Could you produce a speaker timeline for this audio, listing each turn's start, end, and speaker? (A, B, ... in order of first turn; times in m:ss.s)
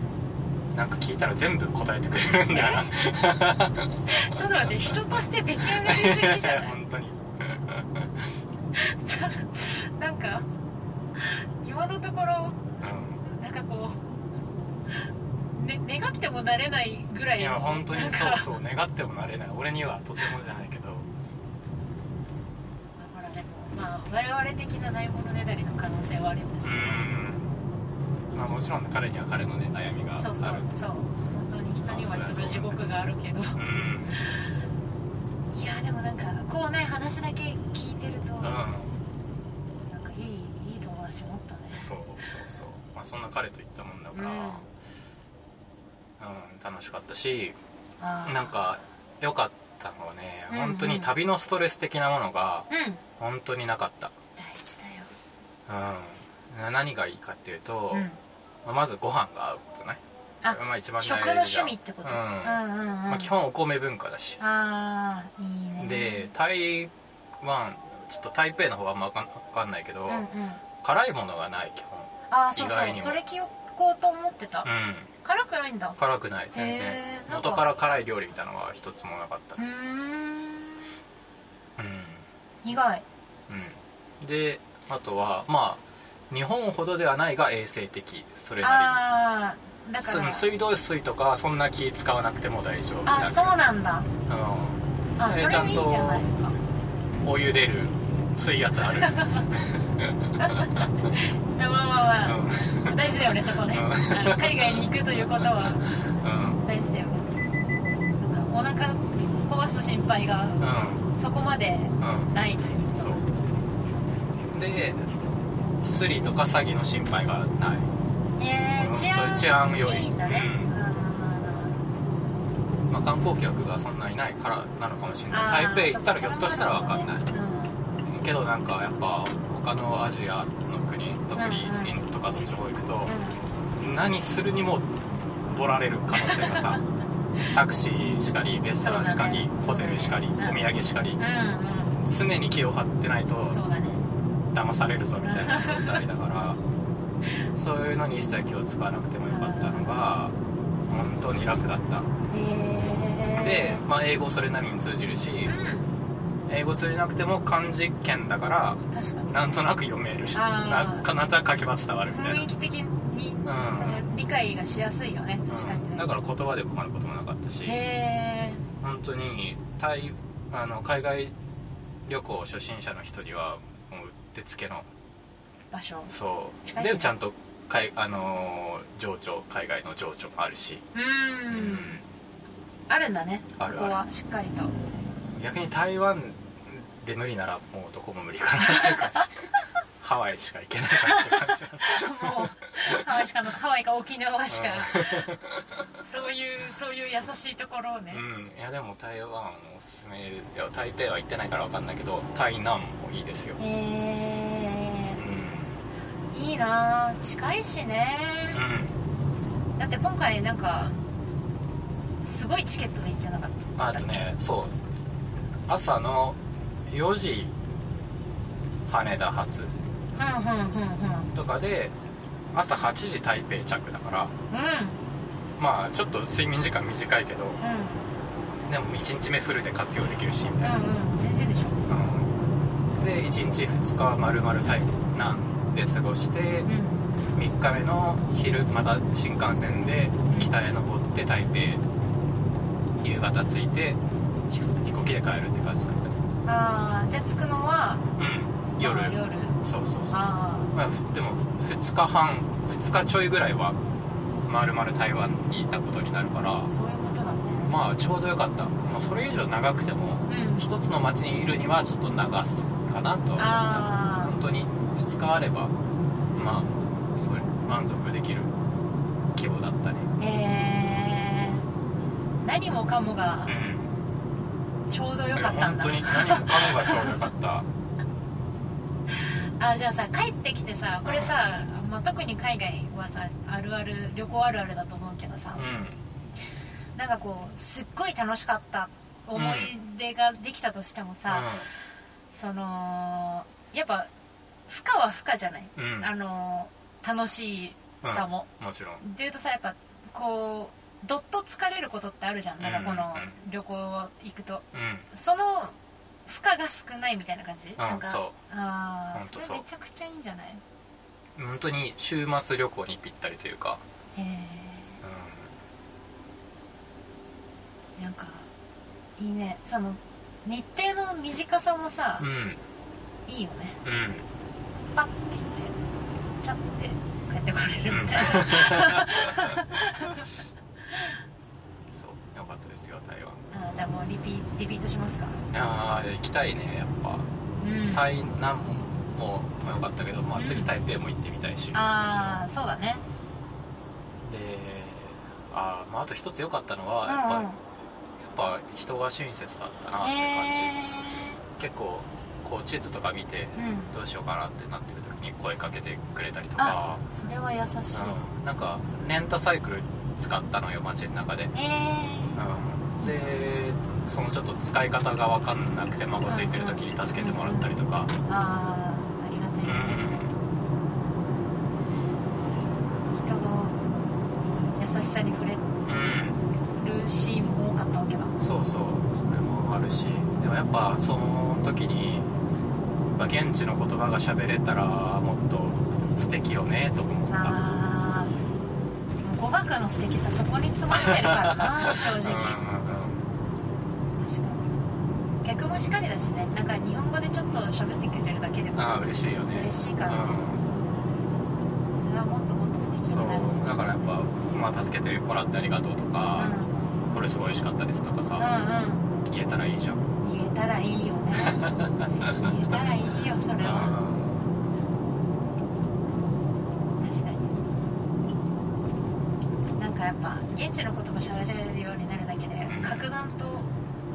0:00.7-0:05.0 A
0:02.5-0:03.0 B
0:04.1-0:06.8 B
0:05.6-0:08.3 A
0:08.8-0:10.5 B
0:11.2-0:12.6 B
0:12.8-0:13.2 A
0:13.2-0:14.0 B
0:15.5-0:18.6 B
0:17.4-0:21.1 A
0:23.0-0:27.1 B
0:26.6-0:27.6 A
0:28.3-0:30.6 A
0:30.2-0:33.6 B
0:31.9-0:32.8 A
0:33.6-0:34.2 A
0:34.1-0:34.5 B
0:35.5-0:38.6 B
0:38.4-0:39.0 A
0:39.9-0:42.4 B
0:41.8-0:44.7 A
0:44.1-0:44.7 B
0:46.2-0:47.6 A
0:48.0-0:48.8 B
0:48.2-0:52.7 A
0:50.5-0:51.2 B
0:52.7-0:53.0 B
0:53.2-0:54.1 A
0:54.4-0:55.1 B
0:55.7-0:58.1 A
0:57.9-0:58.2 B
0:58.6-1:04.4 A
1:00.4-1:03.3 B
1:04.4-1:06.3 B
1:05.8-1:10.3 A
1:10.1-1:10.6 B
1:10.8-1:13.2 A
1:12.3-1:14.7 B
1:14.6-1:15.1 A
1:15.2-1:16.0 B
1:16.0-1:19.6 A
1:16.5-1:17.7 B
1:19.6-1:21.0 B
1:21.8-1:22.3 A
1:22.6-1:23.0 B
1:23.5-1:29.0 A
1:28.6-1:30.5 B
1:30.0-1:33.6 A
1:33.0-1:34.1 B
1:34.3-1:36.3 A
1:35.2-1:36.6 B
1:37.2-1:41.1 A
1:39.0-1:39.5 B
1:40.4-1:45.9 B
1:42.2-1:46.6 A
1:46.6-1:47.3 B
1:48.1-1:53.3 B
1:50.6-1:51.0 A
1:52.0-1:52.3 A
1:53.0-1:53.2 A
1:54.5-1:55.1 A
1:55.8-1:57.9 A
1:58.4-2:01.8 B
1:58.8-2:00.7 A
2:02.9-2:07.3 A
2:05.3-2:07.8 B
2:08.0-2:13.2 A
2:11.4-2:12.0 B
2:13.1-2:13.4 B
2:13.8-2:14.9 A
2:15.5-2:16.8 A
2:16.2-2:16.8 B
2:17.5-2:21.2 A
2:18.8-2:22.0 B
2:22.0-2:23.6 A
2:23.4-2:24.0 B
2:24.5-2:26.6 A
2:25.2-2:26.0 B
2:27.6-2:30.3 A
2:29.3-2:30.1 B
2:30.9-2:32.1 A
2:32.3-2:33.8 B
2:33.4-2:35.5 A
2:35.4-2:35.9 B
2:36.5-2:42.5 A
2:38.9-2:39.5 B
2:40.3-2:41.1 B
2:42.1-2:46.1 B
2:43.4-2:44.0 A
2:45.5-2:47.8 A
2:47.6-2:48.6 B
2:48.8-2:51.3 A
2:52.1-2:54.9 A
2:55.7-2:56.1 B
2:56.1-3:00.8 A
2:56.6-2:57.1 B
3:00.9-3:02.0 B
3:01.5-3:02.0 A
3:02.9-3:04.7 B
3:03.6-3:04.0 A
3:05.3-3:09.4 A
3:08.6-3:09.3 B
3:10.0-3:13.3 A
3:11.0-3:15.3 B
3:14.5-3:15.8 A
3:16.0-3:18.2 B
3:18.1-3:23.6 A
3:23.6-3:25.2 B
3:25.2-3:25.8 A
3:26.3-3:28.6 B
3:28.5-3:29.0 A
3:29.8-3:31.0 B
3:32.2-3:34.3 B
3:33.8-3:34.8 A
3:35.7-3:37.6 A
3:38.9-3:39.8 A
3:40.2-3:41.3 B
3:41.3-3:42.0 A
3:42.5-3:44.3 A
3:44.5-3:45.0 B
3:45.6-3:47.6 A
3:47.6-3:48.0 B
3:48.7-3:50.8 A
3:50.6-3:51.8 B
3:51.9-3:52.3 A
3:53.0-3:56.7 A
3:56.7-3:57.1 B
3:57.4-4:01.8 A
4:03.0-4:06.2 A
4:06.4-4:08.1 B
4:08.2-4:13.8 A
4:08.8-4:09.6 B
4:10.1-4:10.7 B
4:14.5-4:16.7 A
4:16.7-4:17.7 B
4:17.6-4:25.7 A
4:20.3-4:20.7 B
4:23.4-4:24.4 B
4:26.4-4:28.5 A
4:29.3-4:30.1 A
4:30.2-4:31.6 B
4:32.4-4:33.6 B
4:33.5-4:33.9 A
4:34.9-4:37.2 B
4:35.3-4:37.7 A
4:39.2-4:45.6 B
4:41.0-4:41.3 A
4:45.6-4:46.0 A
4:47.0-4:51.7 B
4:49.4-4:49.7 A
4:51.3-4:51.7 A
4:52.3-4:54.1 B
4:54.7-4:58.5 B
4:55.8-4:56.1 A
4:58.0-4:59.0 A
4:59.0-5:10.6 B
5:02.6-5:03.4 A
5:04.7-5:05.1 A
5:07.8-5:08.4 A
5:09.1-5:09.6 A
5:11.4-5:13.8 A
5:14.2-5:15.0 B
5:15.0-5:15.5 A
5:18.0-5:18.5 B
5:19.2-5:22.3 B
5:22.2-5:22.6 A
5:23.3-5:23.8 B
5:23.8-5:24.3 A
5:25.0-5:25.8 B
5:26.4-5:30.3 B
5:27.9-5:29.6 A
5:30.9-5:31.2 B
5:31.9-5:33.4 A
5:33.5-5:35.5 B
5:35.5-5:37.3 A
5:37.6-5:38.1 B
5:37.9-5:42.4 A
5:40.4-5:40.7 B
5:41.7-5:43.0 B
5:44.3-5:47.5 A
5:47.1-5:47.6 B
5:48.2-5:51.0 A
5:50.0-5:51.4 B
5:51.6-5:57.0 A
5:53.6-5:53.9 B
5:56.6-5:58.2 B
5:57.9-6:01.5 A
6:01.5-6:02.4 B
6:02.4-6:08.1 A
6:03.0-6:03.3 B
6:06.3-6:07.7 B
6:08.2-6:10.2 B
6:09.6-6:10.4 A
6:13.2-6:13.8 B
6:14.8-6:15.7 B
6:15.8-6:16.4 A
6:16.8-6:18.4 B
6:18.4-6:22.3 A
6:23.2-6:27.6 A
6:27.3-6:28.3 B
6:29.2-6:32.6 B
6:30.9-6:33.2 A
6:34.2-6:34.8 B
6:35.4-6:40.4 B
6:38.8-6:40.7 A
6:42.0-6:44.1 B
6:43.1-6:46.5 A
6:46.4-6:46.9 B
6:47.1-6:48.5 A
6:48.4-6:49.1 B
6:49.3-6:50.0 A
6:50.2-6:54.0 B
6:51.4-6:52.7 A
6:53.6-6:54.4 A
6:57.0-6:57.6 B
6:59.8-7:03.7 B
7:02.7-7:03.1 A